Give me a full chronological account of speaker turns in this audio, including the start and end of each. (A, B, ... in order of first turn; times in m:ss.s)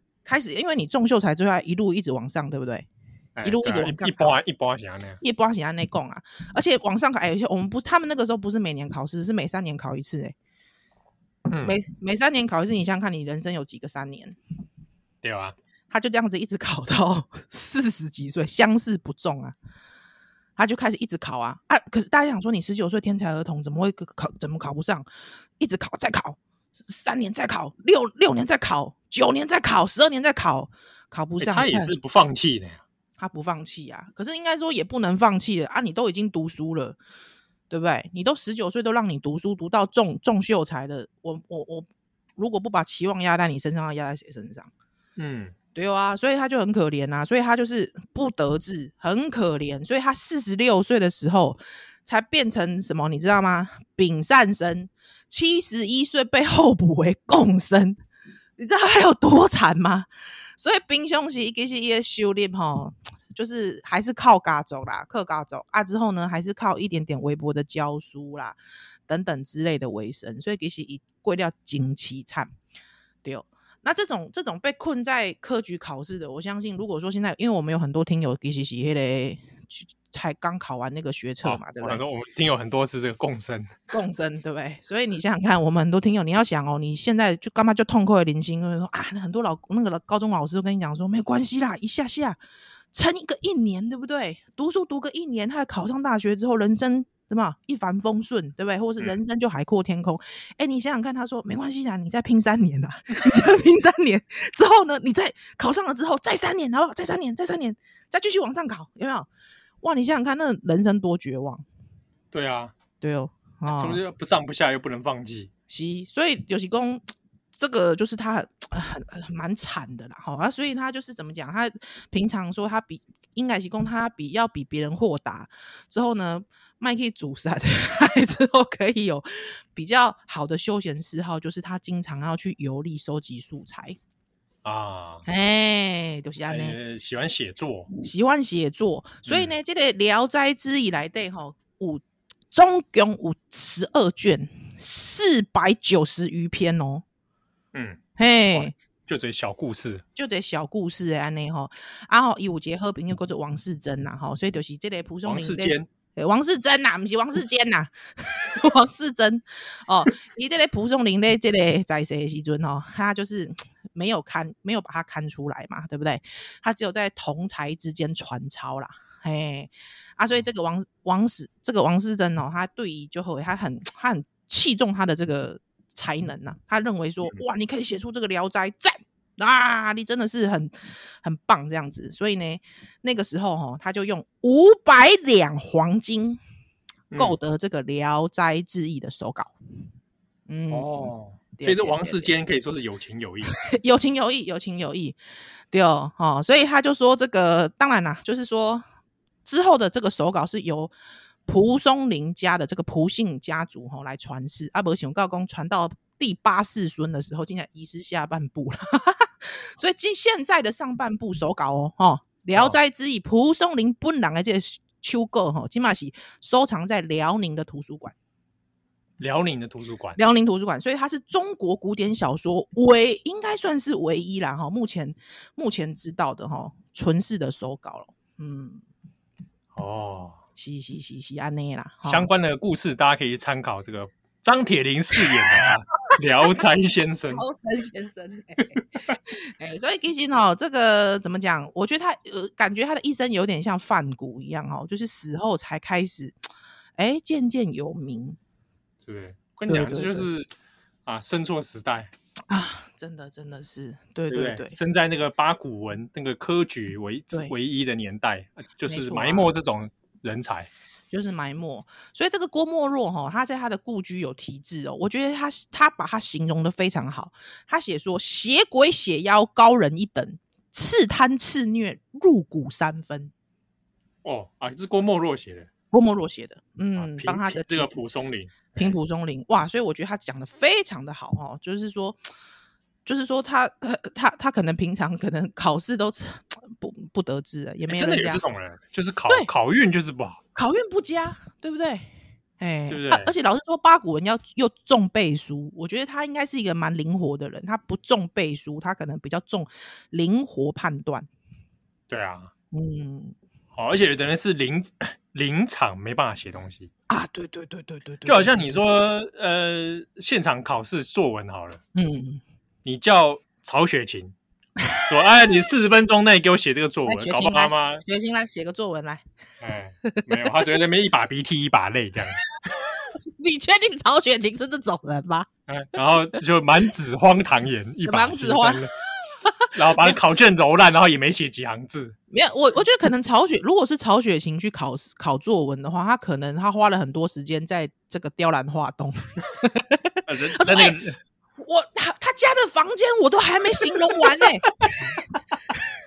0:00.2-0:02.9 A
0:03.4-0:05.2 B
0:03.4-0:04.4 A
0:05.2-0:10.4 A
0:11.5-0:11.8 B
0:11.6-0:14.4 A
0:15.2-0:15.6 B
0:15.9-0:19.6 A
0:20.6-0:25.1 A
0:25.6-0:31.9 A
0:31.4-0:32.8 B
0:33.2-0:37.0 A
0:37.7-0:44.7 A
0:45.2-0:45.5 B
0:45.8-0:58.0 A
0:58.6-1:00.1 A
1:00.6-1:08.6 A
1:09.1-1:12.5 A
1:13.2-1:22.0 A
1:21.4-1:23.7 B
1:23.9-1:32.4 A
1:32.9-1:49.3 A
1:49.8-1:51.6 A
1:52.3-1:52.8 B
1:53.0-1:54.0 A
1:53.7-1:55.5 B
1:55.7-1:57.0 A
1:57.6-2:14.0 A
2:14.6-2:15.2 B
2:15.3-2:16.8 A
2:16.5-2:17.9 B
2:17.9-2:27.0 A
2:19.3-2:19.5 B
2:27.7-2:28.0 B
2:28.2-2:28.8 A
2:28.5-2:30.0 B
2:30.1-3:06.4 A
2:35.2-2:35.9 B
3:07.1-3:07.4 B
3:07.1-3:09.5 A
3:10.5-3:12.4 A
3:10.7-3:13.6 B
3:13.6-3:15.2 A
3:15.7-3:18.8 A
3:19.4-3:20.9 A
3:21.5-3:38.1 A
3:39.2-3:40.2 B
3:40.2-3:48.8 A
3:49.7-3:50.4 B
3:50.6-3:52.3 A
3:52.0-3:57.4 B
3:57.3-4:06.4 A
4:07.0-4:08.4 A
4:09.0-4:10.5 B
4:09.7-4:10.3 A
4:11.1-4:12.1 B
4:12.5-4:14.8 A
4:14.3-4:20.7 B
4:18.9-4:19.5 A
4:21.1-4:33.3 A
4:34.2-4:35.7 B
4:35.9-4:38.0 A
4:37.0-4:39.0 B
4:38.7-4:42.2 A
4:43.0-4:48.4 A
4:47.9-4:50.4 B
4:50.6-5:01.3 A
4:52.9-4:53.3 B
5:02.1-5:02.5 B
5:02.7-5:03.4 A
5:03.7-5:06.9 B
5:07.1-5:08.8 A
5:08.2-5:11.8 B
5:11.9-5:12.4 A
5:12.8-5:14.3 B
5:15.1-5:18.0 B
5:17.1-5:19.2 A
5:19.6-5:22.4 B
5:20.0-5:20.7 A
5:23.0-5:25.5 A
5:25.7-5:28.9 B
5:28.0-5:30.2 A
5:29.8-5:32.2 B
5:32.3-5:41.0 A
5:40.3-5:41.2 B
5:41.6-5:45.2 A